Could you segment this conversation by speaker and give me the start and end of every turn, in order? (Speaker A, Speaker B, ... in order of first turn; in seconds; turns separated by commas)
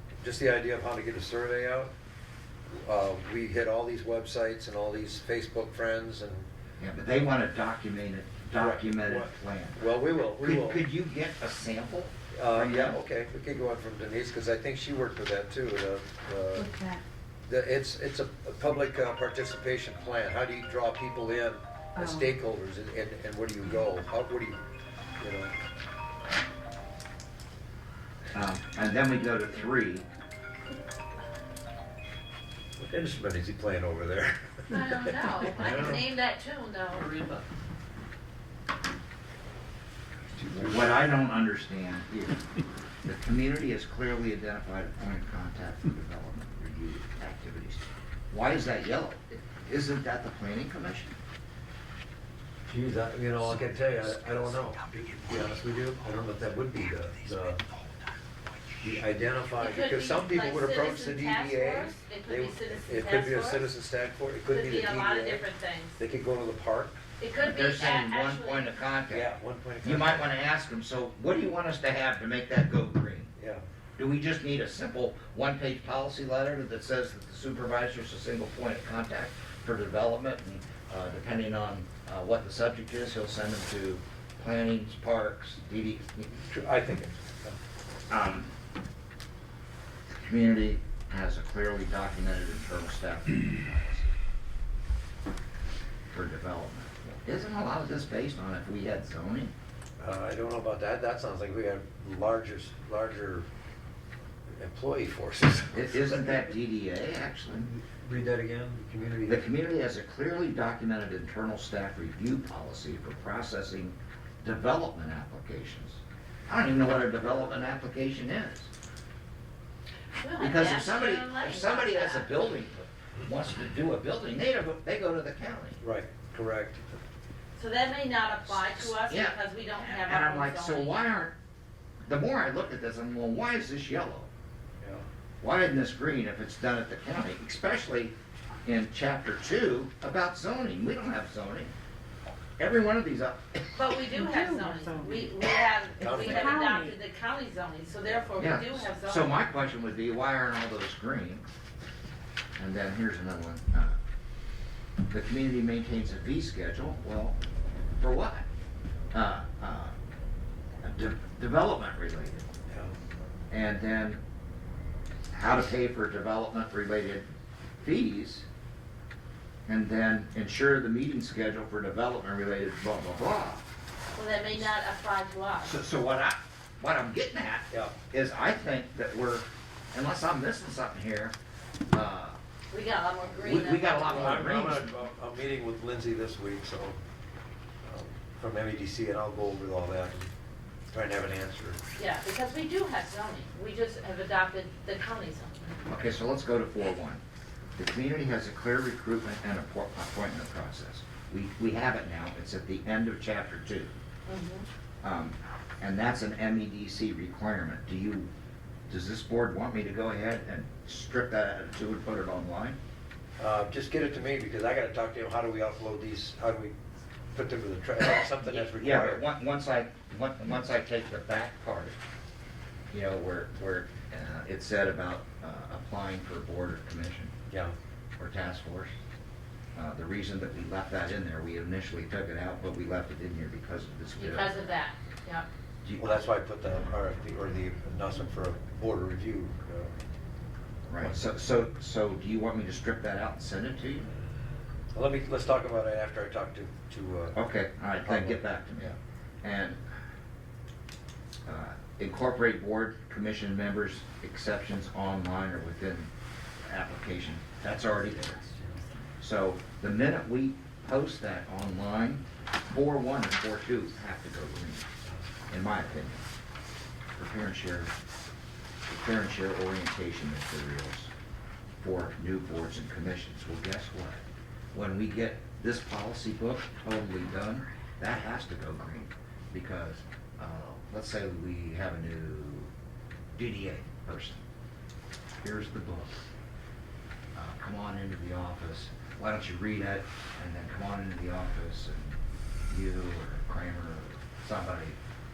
Speaker A: 0.2-1.9, Speaker A: 2.7-6.5, Speaker B: 6.8-13.0, Speaker A: 8.6-10.8, Speaker A: 12.3-16.7, Speaker C: 16.6-17.0, Speaker A: 17.5-24.6, Speaker C: 21.9-22.3, Speaker A: 25.2-25.5, Speaker B: 28.3-30.1, Speaker A: 32.8-36.0, Speaker D: 34.7-37.4, Speaker A: 40.2-41.1, Speaker B: 40.5-42.4, Speaker B: 43.0-51.2, Speaker A: 52.7-57.6, Speaker A: 58.8-65.4, Speaker D: 59.5-63.6, Speaker D: 64.5-66.0, Speaker A: 66.0-67.0, Speaker D: 67.2-68.8, Speaker B: 67.4-73.3, Speaker A: 69.1-70.3, Speaker A: 73.4-73.6, Speaker B: 74.0-86.4, Speaker A: 86.4-87.5, Speaker B: 88.1-88.5, Speaker B: 90.2-94.1, Speaker B: 96.1-99.5, Speaker A: 100.0-103.5, Speaker A: 104.5-106.4, Speaker B: 105.7-107.7, Speaker A: 107.6-109.5, Speaker B: 109.3-118.7, Speaker A: 117.2-117.5, Speaker D: 120.1-122.4, Speaker B: 120.4-125.8, Speaker A: 125.8-127.0, Speaker D: 127.5-130.9, Speaker B: 128.4-131.3, Speaker B: 132.1-134.3, Speaker A: 134.8-135.1, Speaker B: 135.4-141.7, Speaker B: 142.6-143.4, Speaker D: 143.7-149.4, Speaker C: 144.1-145.3, Speaker A: 146.0-146.7, Speaker C: 146.0-146.9, Speaker B: 148.4-151.4, Speaker B: 152.6-153.9, Speaker B: 155.1-157.4, Speaker B: 158.0-158.4, Speaker B: 159.1-159.9, Speaker B: 160.8-162.5, Speaker A: 162.7-162.9, Speaker B: 163.5-164.2, Speaker B: 165.3-167.3, Speaker B: 167.8-168.4, Speaker B: 169.7-173.6, Speaker D: 174.1-175.8, Speaker B: 175.6-181.3, Speaker A: 177.7-177.9, Speaker B: 181.9-182.4, Speaker D: 182.7-184.4, Speaker B: 183.4-185.0, Speaker A: 184.0-187.0, Speaker A: 187.8-190.3, Speaker A: 190.9-191.8, Speaker D: 191.9-195.8, Speaker B: 195.9-197.2, Speaker B: 197.8-203.9, Speaker D: 204.3-204.7, Speaker B: 205.0-208.3, Speaker B: 208.9-212.8, Speaker A: 213.4-216.7, Speaker A: 217.3-219.2, Speaker B: 218.4-221.9, Speaker B: 222.9-227.3, Speaker A: 227.5-227.7, Speaker B: 228.2-228.9, Speaker B: 229.7-234.8, Speaker D: 234.2-235.5, Speaker B: 235.8-236.1, Speaker A: 236.0-239.9, Speaker B: 240.9-244.1, Speaker A: 244.9-247.3, Speaker B: 247.3-249.8, Speaker A: 248.0-248.9, Speaker B: 251.4-256.1, Speaker B: 256.6-258.4, Speaker B: 259.2-264.9, Speaker B: 265.5-266.2, Speaker B: 267.1-267.9, Speaker B: 268.9-271.1, Speaker B: 271.8-282.7, Speaker B: 283.3-284.4, Speaker B: 285.4-286.1, Speaker B: 287.3-295.0